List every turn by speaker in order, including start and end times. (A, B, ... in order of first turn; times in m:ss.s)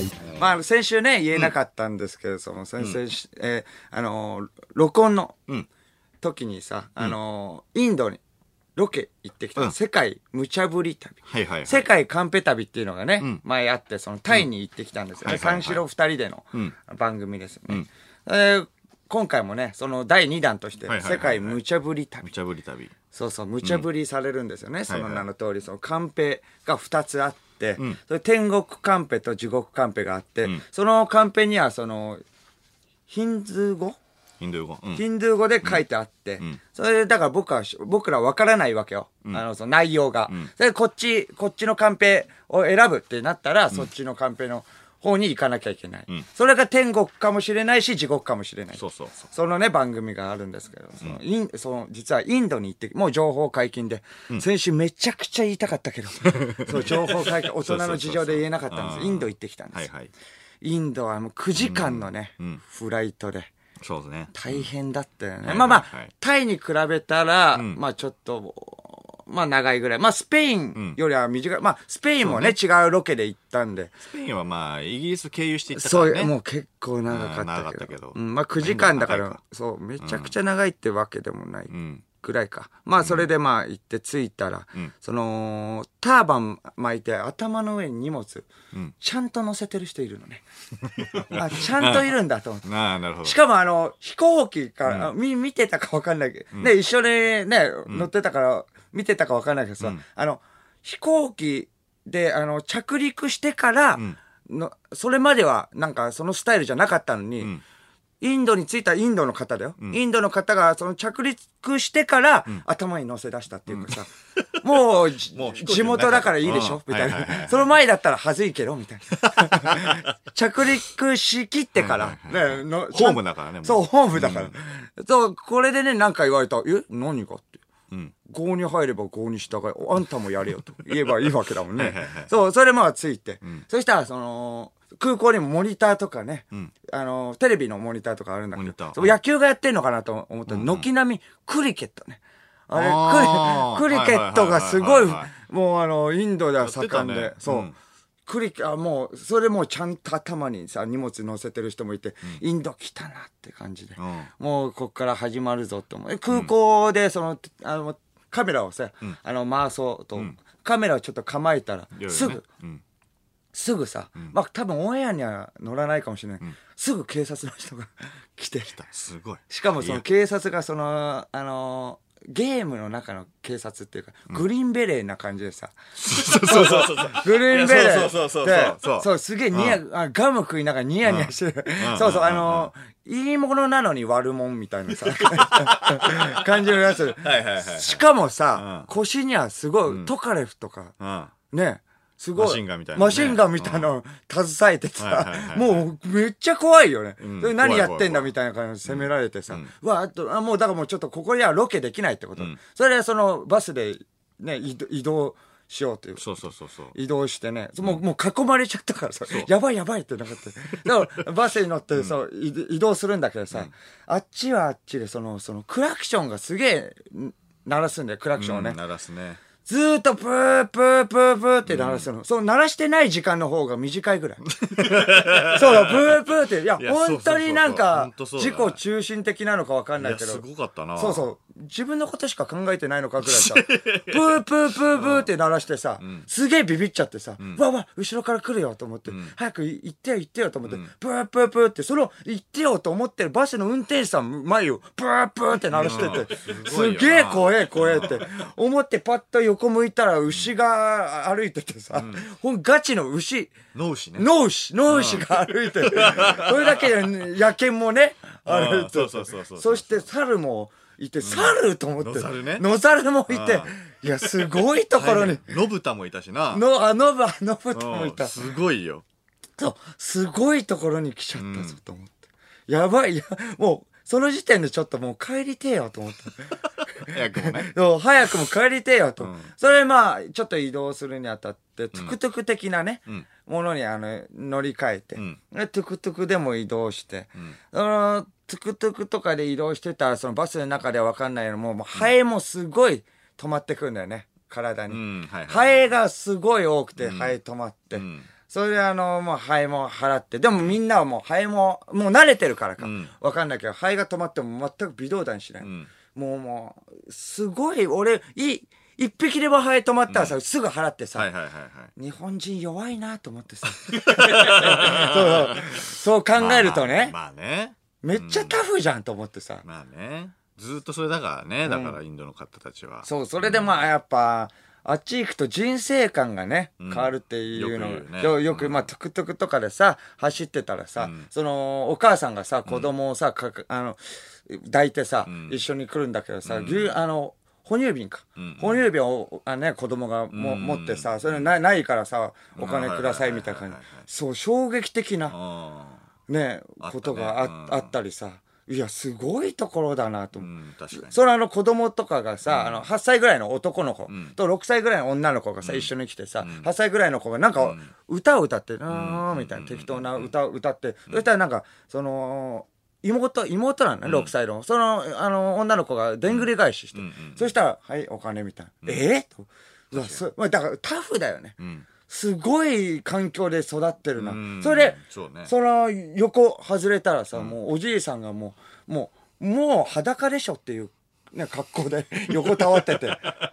0:00.2-0:00.5 A
0:00.4-0:05.4 B
0:06.2-0:08.2 B
0:08.8-0:22.3 B
0:11.3-0:11.8 A
0:15.2-0:15.8 A
0:20.9-0:21.6 A
0:22.2-0:22.9 A
0:23.1-0:32.2 B
0:24.9-0:25.2 A
0:33.1-0:34.0 B
0:34.4-0:35.0 A
0:34.9-0:59.9 B
0:48.8-0:49.3 A
0:56.4-1:00.1 A
1:00.6-1:03.5 B
1:01.6-1:02.6 A
1:03.8-1:04.6 A
1:04.3-1:13.9 B
1:05.4-1:06.1 A
1:07.5-1:07.8 A
1:12.2-1:12.6 A
1:14.0-1:16.3 A
1:15.7-1:28.5 B
1:17.1-1:19.4 A
1:20.0-1:20.3 A
1:21.7-1:22.0 A
1:23.0-1:23.3 A
1:29.0-1:30.4 B
1:30.9-1:32.1 A
1:31.2-1:32.6 B
1:32.6-1:33.4 A
1:33.2-1:47.5 B
1:34.8-1:35.1 A
1:48.2-1:54.1 B
1:53.7-1:54.4 A
1:54.6-2:07.6 B
1:55.3-1:57.6 A
1:59.3-2:00.0 A
2:01.8-2:04.6 A
2:08.2-2:27.7 B
2:11.7-2:12.3 A
2:18.6-2:19.2 A
2:20.5-2:20.8 A
2:22.7-2:25.3 A
2:26.6-2:27.7 A
2:28.3-2:42.4 B
2:34.0-2:34.3 A
2:41.9-2:42.8 A
2:43.5-2:48.8 B
2:48.7-2:50.0 A
2:49.5-2:55.7 B
2:56.0-2:59.8 A
2:56.2-3:10.9 B
3:01.0-3:02.7 A
3:05.2-3:08.0 A
3:08.5-3:08.9 A
3:11.0-3:11.3 A
3:11.5-3:26.2 B
3:12.4-3:13.9 A
3:15.0-3:15.8 A
3:17.2-3:18.3 A
3:18.8-3:19.7 A
3:26.2-3:26.9 A
3:26.9-3:38.8 B
3:38.4-3:39.4 A
3:39.6-3:44.4 B
3:41.6-3:42.1 A
3:44.5-3:48.8 A
3:45.0-3:50.4 B
3:50.0-3:51.2 A
3:51.0-4:13.5 B
3:53.2-3:55.3 A
3:56.0-3:56.3 A
3:59.1-3:59.3 A
4:05.7-4:08.2 A
4:11.9-4:12.2 A
4:13.7-4:14.2 A
4:14.2-4:25.6 B
4:14.9-4:17.0 A
4:18.4-4:20.1 A
4:21.2-4:22.6 A
4:23.3-4:23.7 A
4:24.9-4:26.6 A
4:26.5-4:28.4 B
4:27.7-4:29.0 A
4:29.6-4:32.1 B
4:31.4-4:31.8 A
4:32.7-5:11.3 B
4:37.0-4:37.7 A
4:39.2-4:39.5 A
4:54.9-4:55.7 A
4:57.0-4:57.4 A
4:57.9-4:58.3 A
5:02.8-5:03.1 A
5:05.6-5:05.9 A
5:10.1-5:10.4 A
5:11.1-5:11.9 A
5:12.0-5:17.1 B
5:13.8-5:18.6 A
5:18.0-5:19.6 B
5:19.6-5:23.7 A
5:21.6-5:22.0 B
5:23.0-5:45.3 B
5:26.8-5:28.9 A
5:31.0-5:31.3 A
5:35.2-5:35.6 A
5:36.4-5:37.0 A
5:38.4-5:38.8 A
5:40.3-5:41.4 A
5:42.6-5:44.0 A
5:45.3-5:46.0 A
5:46.3-6:11.6 B
5:46.8-5:47.9 A
5:50.4-5:51.1 A
5:52.4-5:52.8 A
5:54.1-5:54.4 A
5:55.6-5:55.9 A
5:56.4-5:56.7 A
5:57.6-5:57.9 A
5:58.9-6:00.3 A
6:04.0-6:04.3 A
6:06.3-6:07.5 A
6:09.9-6:10.2 A
6:11.6-6:11.9 A
6:12.1-6:23.3 B
6:14.2-6:15.5 A